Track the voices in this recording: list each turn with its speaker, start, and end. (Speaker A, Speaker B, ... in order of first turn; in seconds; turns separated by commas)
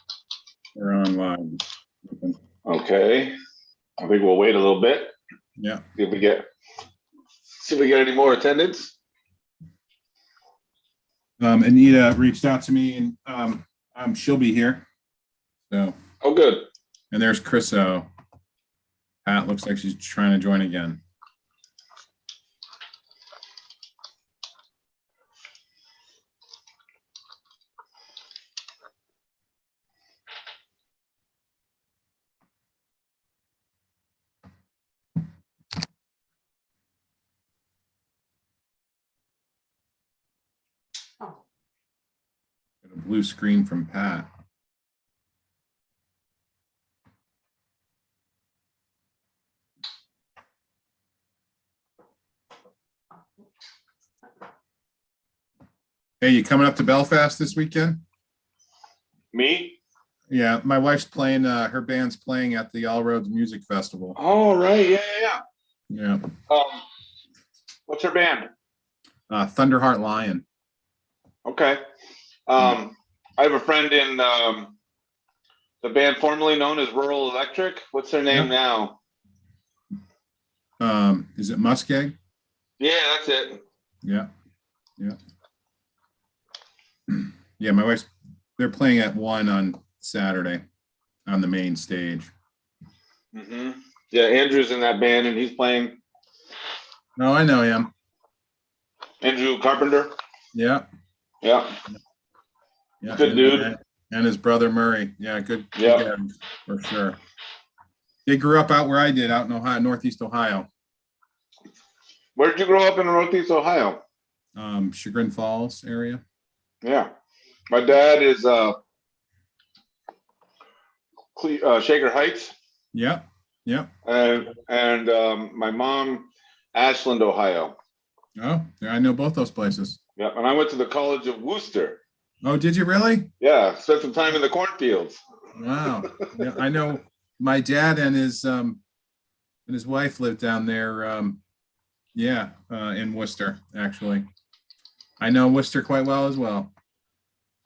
Speaker A: 0.8-2.4, Speaker B: 2.6-3.3, Speaker B: 4.0-5.1, Speaker A: 5.6-5.8, Speaker B: 6.0-6.4, Speaker B: 7.6-8.9, Speaker A: 11.4-14.8, Speaker A: 15.7-15.9, Speaker B: 16.2-16.7, Speaker A: 17.1-18.1, Speaker A: 19.2-21.0, Speaker A: 42.8-44.3, Speaker A: 56.2-58.0, Speaker B: 59.3-59.8, Speaker A: 60.3-64.2, Speaker B: 64.2-65.4, Speaker A: 65.9-66.3, Speaker B: 66.5-66.8, Speaker B: 67.9-68.5, Speaker A: 69.3-70.4, Speaker B: 71.4-71.8, Speaker B: 72.5-74.8, Speaker B: 75.8-79.0, Speaker A: 80.8-82.2, Speaker B: 82.8-83.6, Speaker A: 84.0-84.3, Speaker A: 87.1-90.6, Speaker A: 91.3-92.3, Speaker B: 93.3-96.0, Speaker A: 97.2-97.9, Speaker B: 99.2-100.1, Speaker A: 100.5-100.8, Speaker B: 101.4-101.8, Speaker A: 103.0-107.2, Speaker B: 103.1-103.7, Speaker B: 105.8-106.0, Speaker A: 108.2-110.7, Speaker B: 112.3-114.0, Speaker A: 114.5-116.2, Speaker B: 116.8-117.1, Speaker B: 117.7-118.8, Speaker B: 121.3-122.5, Speaker A: 122.9-123.9, Speaker B: 124.0-127.8, Speaker A: 128.4-130.0, Speaker B: 130.2-132.0, Speaker A: 132.4-133.3, Speaker B: 133.4-135.2, Speaker A: 135.5-138.8, Speaker A: 139.7-141.4, Speaker A: 142.1-144.3, Speaker A: 145.2-146.7